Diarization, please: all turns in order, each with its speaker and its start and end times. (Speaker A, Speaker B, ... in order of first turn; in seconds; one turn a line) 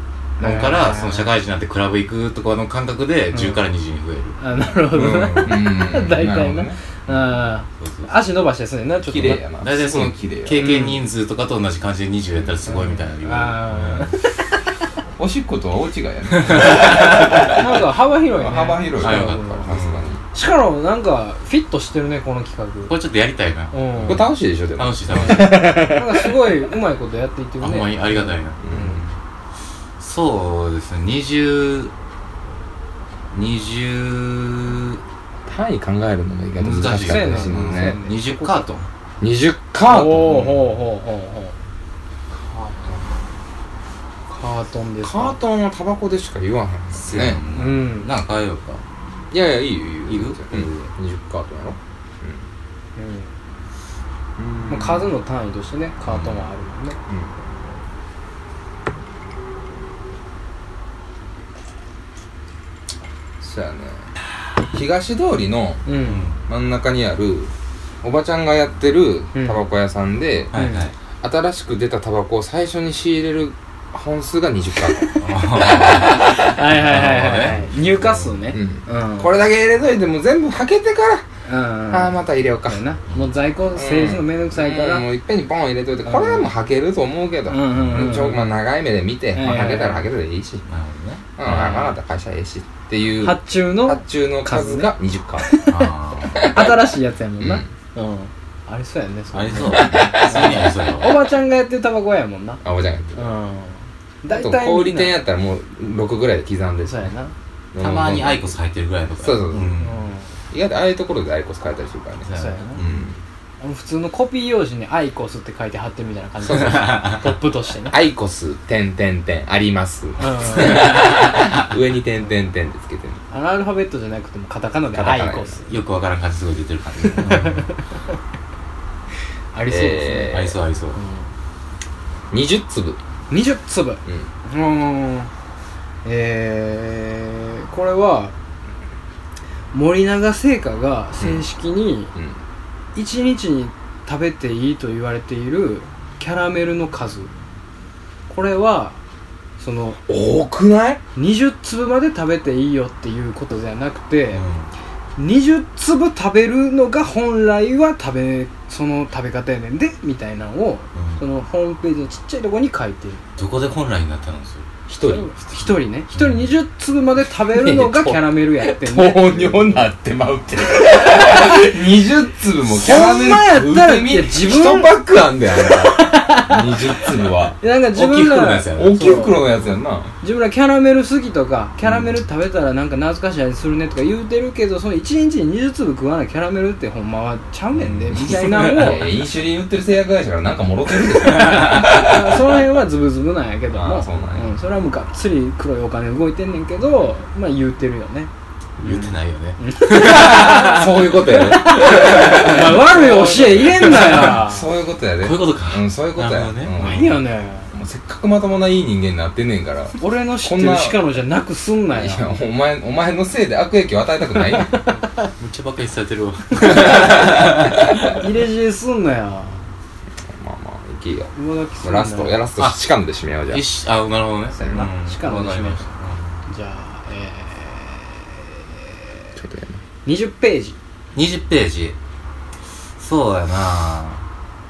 Speaker A: 0.4-4.4
Speaker B: 0.4-1.3
Speaker B: 3.3-3.6
Speaker B: 4.4-9.4
Speaker A: 4.9-6.0
Speaker C: 5.4-6.8
Speaker A: 7.1-8.1
Speaker C: 9.1-10.9
Speaker A: 9.2-14.1
Speaker B: 10.6-11.0
Speaker B: 12.7-14.3
Speaker C: 15.2-20.2
Speaker A: 16.3-17.5
Speaker B: 17.0-19.7
Speaker A: 19.0-20.1
Speaker B: 20.3-22.9
Speaker A: 22.9-25.9
Speaker B: 23.7-24.3
Speaker C: 24.0-26.3
Speaker B: 25.8-29.0
Speaker A: 27.6-29.1
Speaker C: 28.6-29.0
Speaker A: 30.0-31.9
Speaker A: 33.3-35.0
Speaker C: 35.5-38.0
Speaker A: 36.6-38.9
Speaker B: 36.8-38.6
Speaker C: 39.2-40.6
Speaker B: 39.9-41.5
Speaker C: 42.3-43.0
Speaker B: 44.3-45.4
Speaker C: 45.0-47.4
Speaker A: 47.0-48.8
Speaker B: 47.5-48.1
Speaker C: 49.3-52.4
Speaker A: 50.1-50.9
Speaker B: 53.0-53.3
Speaker C: 54.4-55.1
Speaker B: 54.7-57.0
Speaker A: 56.0-56.5
Speaker C: 57.1-57.3
Speaker C: 63.4-64.1
Speaker C: 64.7-65.9
Speaker B: 65.8-66.3
Speaker A: 66.0-66.4
Speaker C: 66.5-70.5
Speaker B: 69.3-69.6
Speaker B: 70.5-70.9
Speaker A: 70.5-70.9
Speaker C: 71.2-76.5
Speaker B: 75.0-79.3
Speaker A: 75.2-77.6
Speaker C: 78.5-81.2
Speaker B: 81.5-85.1
Speaker C: 81.9-82.8
Speaker C: 83.7-90.6
Speaker B: 86.0-86.5
Speaker B: 87.5-88.6
Speaker B: 89.3-90.0
Speaker A: 90.7-91.5
Speaker C: 91.4-95.5
Speaker B: 91.4-91.9
Speaker B: 93.2-94.9
Speaker B: 95.4-95.8
Speaker A: 95.7-96.6
Speaker C: 96.3-96.7
Speaker B: 96.4-102.6
Speaker C: 97.4-97.7
Speaker A: 99.3-101.2
Speaker C: 99.7-100.6
Speaker C: 102.6-103.3
Speaker B: 103.1-105.2
Speaker C: 104.3-107.0
Speaker B: 106.8-107.3
Speaker C: 107.7-108.6
Speaker A: 107.8-110.0
Speaker C: 109.2-109.8
Speaker B: 109.8-110.3
Speaker C: 110.5-113.2
Speaker A: 112.2-113.0
Speaker B: 112.3-112.8
Speaker B: 113.6-118.0
Speaker A: 116.5-117.2
Speaker C: 117.9-123.2
Speaker B: 120.2-121.1
Speaker B: 123.3-125.7
Speaker C: 124.9-125.6
Speaker A: 125.7-127.6
Speaker B: 127.0-127.8
Speaker B: 129.5-131.3
Speaker C: 129.7-130.6
Speaker A: 130.3-131.0
Speaker C: 132.3-133.0
Speaker B: 133.3-135.3
Speaker B: 136.0-138.3
Speaker B: 139.7-142.1
Speaker B: 142.9-147.3
Speaker B: 148.3-149.0
Speaker B: 149.6-150.0
Speaker C: 150.1-151.0
Speaker B: 151.2-154.4
Speaker A: 154.3-154.7
Speaker B: 155.2-163.2
Speaker A: 160.9-161.2
Speaker A: 163.4-164.7
Speaker C: 164.9-165.3
Speaker B: 165.0-169.8
Speaker A: 166.1-166.5
Speaker C: 167.5-177.6
Speaker B: 171.0-171.7
Speaker B: 172.7-174.9
Speaker B: 175.5-179.4
Speaker A: 177.9-179.4
Speaker C: 178.7-180.1
Speaker B: 180.2-189.1
Speaker A: 187.8-188.9
Speaker C: 188.2-192.2
Speaker B: 191.2-198.3
Speaker C: 193.7-194.5
Speaker A: 198.8-204.3
Speaker B: 198.8-204.7
Speaker C: 200.2-207.2
Speaker A: 205.2-207.2
Speaker B: 206.8-207.7
Speaker C: 207.7-211.1
Speaker B: 210.0-212.3
Speaker C: 211.9-214.7
Speaker B: 214.5-215.1
Speaker A: 215.2-217.8
Speaker C: 216.6-218.2
Speaker B: 216.6-217.3
Speaker B: 217.9-219.6
Speaker C: 220.3-223.7
Speaker B: 221.3-222.4
Speaker A: 223.5-226.3
Speaker B: 224.6-225.9
Speaker B: 226.5-229.0
Speaker C: 229.4-229.8
Speaker B: 230.0-230.8
Speaker A: 231.1-231.9
Speaker A: 233.0-234.2